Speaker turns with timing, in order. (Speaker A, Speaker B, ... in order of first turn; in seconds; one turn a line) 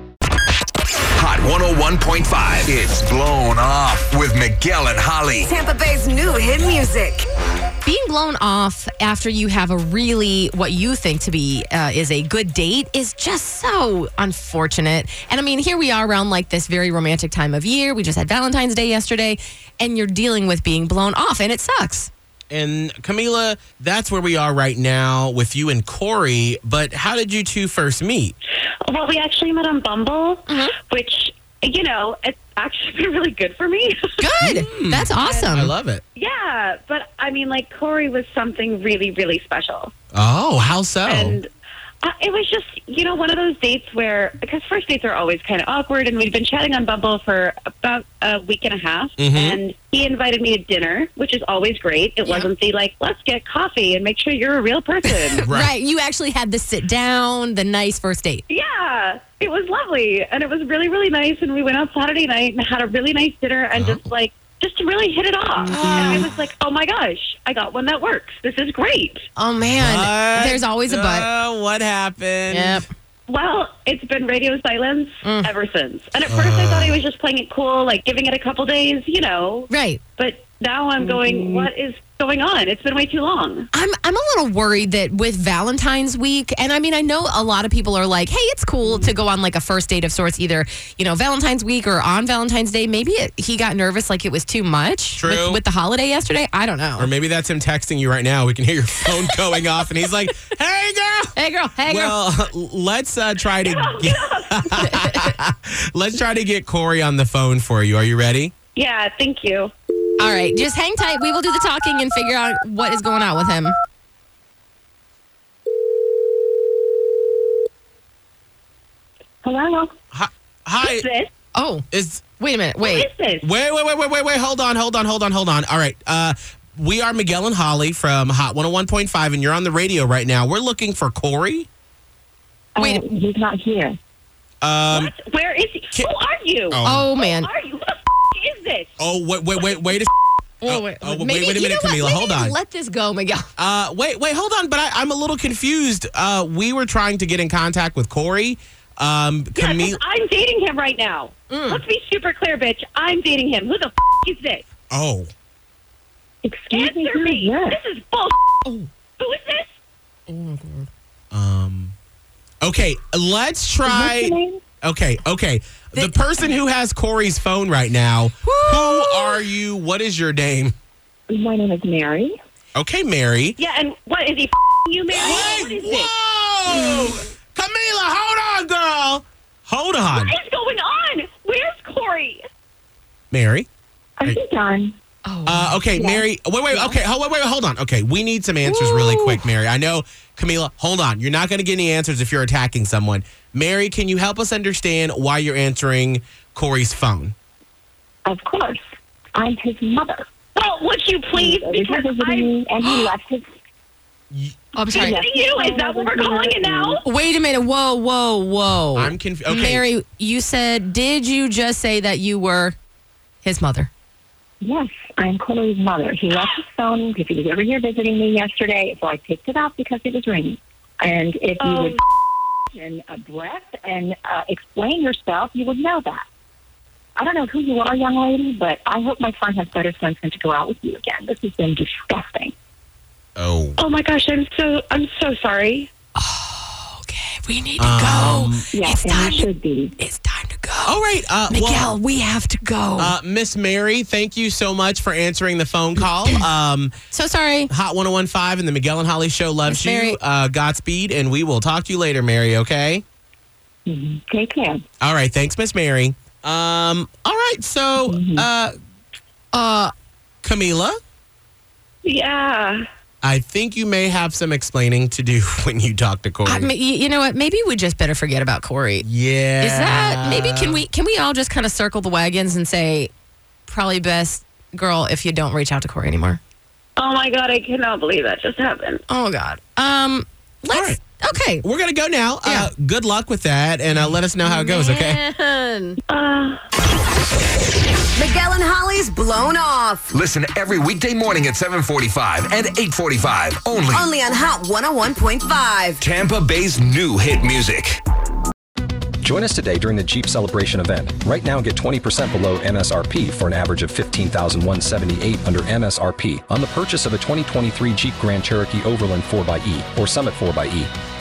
Speaker A: 1.2-5.5
Speaker B: 5.5-7.3
Speaker C: 7.8-22.1
Speaker D: 22.5-28.3
Speaker E: 28.9-34.1
Speaker C: 30.5-30.7
Speaker C: 34.2-35.7
Speaker D: 34.4-36.0
Speaker E: 35.2-35.5
Speaker E: 36.1-39.9
Speaker D: 40.1-41.4
Speaker E: 41.0-41.5
Speaker E: 42.0-55.4
Speaker D: 49.2-49.6
Speaker C: 52.2-52.5
Speaker C: 55.1-58.4
Speaker D: 55.4-55.7
Speaker E: 58.5-69.2
Speaker D: 63.7-64.0
Speaker D: 65.7-66.3
Speaker C: 65.7-66.2
Speaker C: 69.4-71.3
Speaker D: 69.6-72.8
Speaker C: 72.5-72.9
Speaker E: 73.3-83.7
Speaker C: 75.2-75.5
Speaker D: 76.2-77.0
Speaker C: 79.7-80.0
Speaker C: 83.7-97.1
Speaker D: 95.2-95.6
Speaker D: 97.0-101.3
Speaker C: 101.4-102.2
Speaker D: 101.9-108.5
Speaker E: 103.7-104.8
Speaker C: 104.8-105.2
Speaker E: 108.8-109.7
Speaker C: 110.2-113.8
Speaker F: 119.5-119.9
Speaker D: 120.1-121.1
Speaker E: 120.8-121.3
Speaker C: 121.5-121.8
Speaker D: 121.9-122.2
Speaker C: 122.4-123.1
Speaker E: 122.8-123.5
Speaker D: 123.4-131.7
Speaker C: 132.8-133.1
Speaker F: 132.8-133.9
Speaker D: 134.6-135.1
Speaker E: 134.9-139.0
Speaker D: 136.7-137.1
Speaker C: 136.8-137.5
Speaker D: 139.0-140.1
Speaker C: 140.6-143.5
Speaker D: 140.7-142.6
Speaker D: 143.6-150.0
Speaker E: 149.6-154.6
Speaker C: 151.5-151.8
Speaker D: 154.9-155.3
Speaker F: 156.4-157.7
Speaker E: 156.7-158.6
Speaker E: 159.2-159.7
Speaker C: 160.3-160.9
Speaker D: 161.3-161.9
Speaker D: 162.6-170.7
Speaker F: 164.1-164.6
Speaker C: 165.9-166.5
Speaker C: 168.4-169.4
Speaker F: 171.3-172.3
Speaker D: 172.8-173.6
Speaker E: 173.6-176.1
Speaker D: 175.1-180.3
Speaker E: 180.1-182.4
Speaker D: 183.3-183.7
Speaker F: 184.4-184.9
Speaker C: 185.2-185.8
Speaker D: 185.5-197.3
Speaker C: 186.7-187.0
Speaker C: 188.7-189.4
Speaker F: 198.3-198.8
Speaker F: 199.4-200.2
Speaker E: 200.6-202.5
Speaker F: 201.4-203.4
Speaker C: 202.8-203.1
Speaker D: 204.3-205.1
Speaker C: 204.8-205.2
Speaker E: 204.9-207.1
Speaker F: 205.3-206.9
Speaker C: 207.0-212.8
Speaker D: 208.9-209.9
Speaker C: 213.4-213.9
Speaker F: 214.7-221.9
Speaker E: 216.3-216.6
Speaker E: 221.6-222.0
Speaker F: 222.8-226.2
Speaker F: 227.2-232.5
Speaker D: 233.4-233.8
Speaker E: 233.8-235.9
Speaker C: 236.2-239.5
Speaker D: 237.8-238.7
Speaker F: 238.8-239.9
Speaker C: 240.0-241.0
Speaker D: 240.9-241.9
Speaker C: 241.5-243.2
Speaker D: 243.0-246.9
Speaker C: 247.1-247.7
Speaker D: 247.7-253.0
Speaker C: 249.7-250.2
Speaker F: 253.9-254.8
Speaker D: 255.0-258.7
Speaker C: 259.5-259.9
Speaker D: 260.4-261.0
Speaker E: 262.0-262.8
Speaker D: 263.2-266.7
Speaker C: 266.4-269.1
Speaker D: 269.0-270.8
Speaker C: 269.6-273.1
Speaker C: 273.7-276.4
Speaker E: 277.0-279.0
Speaker C: 279.1-281.6
Speaker D: 280.7-281.0
Speaker D: 281.6-285.2
Speaker C: 284.4-286.0
Speaker E: 286.1-286.6
Speaker B: 288.1-290.1
Speaker A: 290.1-294.0
Speaker B: 293.9-296.0
Speaker A: 296.0-298.0
Speaker G: 299.2-310.9